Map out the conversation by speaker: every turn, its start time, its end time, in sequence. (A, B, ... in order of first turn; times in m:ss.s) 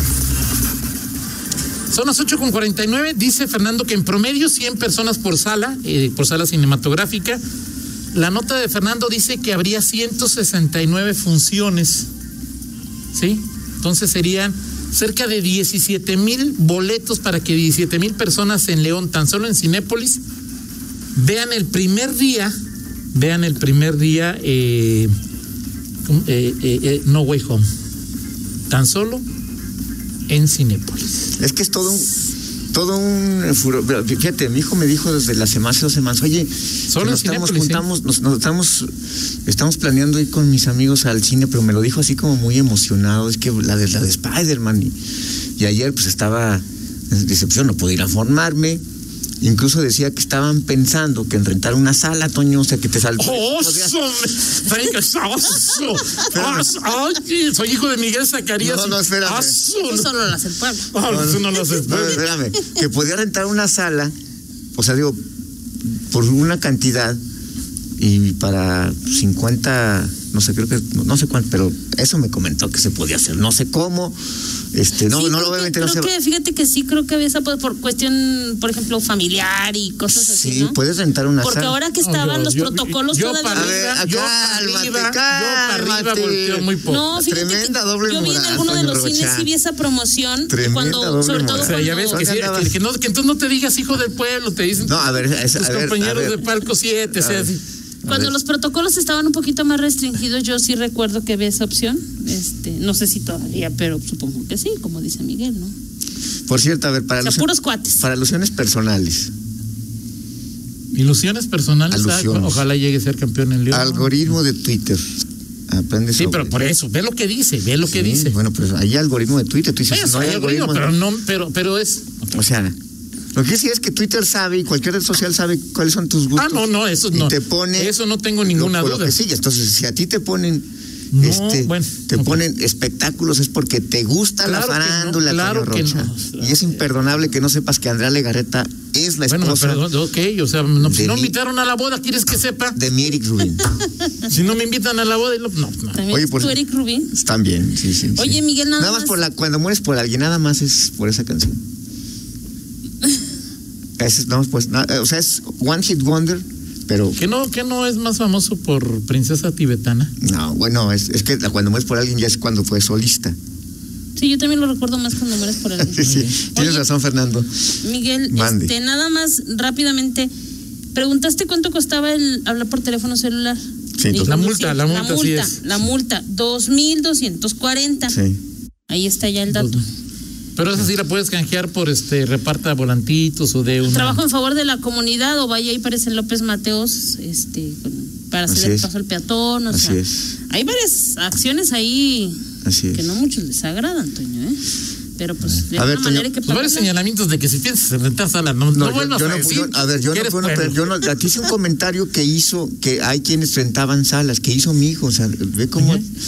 0:01.9-0:07.4 A
0:08.1-0:12.1 A
0:13.1-0:20.2 A
0:21.1-0:22.5 A
0:23.1-0:25.1 A
0:26.0-0:27.6 A
0:28.7-0:29.2 A
0:30.3-0:31.1 A
0:31.4-0:32.1 B
0:32.7-0:38.9 B
0:36.9-0:37.8 A
0:39.4-0:45.0 B
0:45.6-0:48.8 B
0:49.4-0:54.0 B
0:53.2-1:00.1 A
0:56.3-0:56.8 B
0:58.6-0:59.6 B
0:59.7-1:00.9 C
1:00.9-1:02.2 A
1:01.0-1:04.1 B
1:04.8-1:05.2 B
1:06.0-1:07.2 B
1:08.0-1:14.2 B
1:14.7-1:16.1 B
1:15.1-1:20.8 C
1:20.1-1:21.8 B
1:21.4-1:23.8 C
1:22.0-1:27.1 A
1:23.5-1:29.5 B
1:26.8-1:32.2 C
1:30.5-1:32.8 B
1:31.6-1:37.6 A
1:34.8-1:36.5 B
1:37.1-1:38.3 B
1:38.1-1:45.7 C
1:46.5-1:49.3 B
1:47.2-1:48.0 C
1:50.9-1:54.4 A
1:51.9-1:52.6 B
1:53.7-1:56.6 B
1:56.2-1:58.4 A
1:57.9-2:00.9 B
1:59.9-2:02.3 A
2:02.3-2:02.8 B
2:03.4-2:19.8 B
2:06.4-2:09.2 A
2:11.1-2:12.4 A
2:14.4-2:16.9 A
2:19.3-2:22.8 A
2:20.8-2:21.4 B
2:22.7-2:23.7 B
2:24.2-2:26.0 A
2:25.9-2:27.1 C
2:26.1-2:31.6 B
2:28.2-2:29.2 C
2:34.0-2:37.2 B
2:37.2-2:40.1 A
2:40.2-2:43.3 B
2:44.2-2:46.8 C
2:45.8-2:47.6 B
2:46.0-2:46.3 A
2:47.8-2:50.3 C
2:48.3-2:48.7 B
2:50.9-2:53.6 C
2:54.0-2:54.3 B
2:54.1-2:58.1 C
2:54.2-2:55.6 A
2:58.1-2:58.4 B
2:58.9-2:59.8 C
2:59.5-2:59.8 A
3:00.6-3:04.2 A
3:03.8-3:12.4 C
3:08.5-3:08.9 B
3:09.7-3:10.4 B
3:12.6-3:13.1 B
3:12.9-3:14.6 C
3:15.2-3:16.9 C
3:15.6-3:16.3 B
3:16.5-3:21.1 A
3:18.7-3:26.0 B
3:25.8-3:26.0 A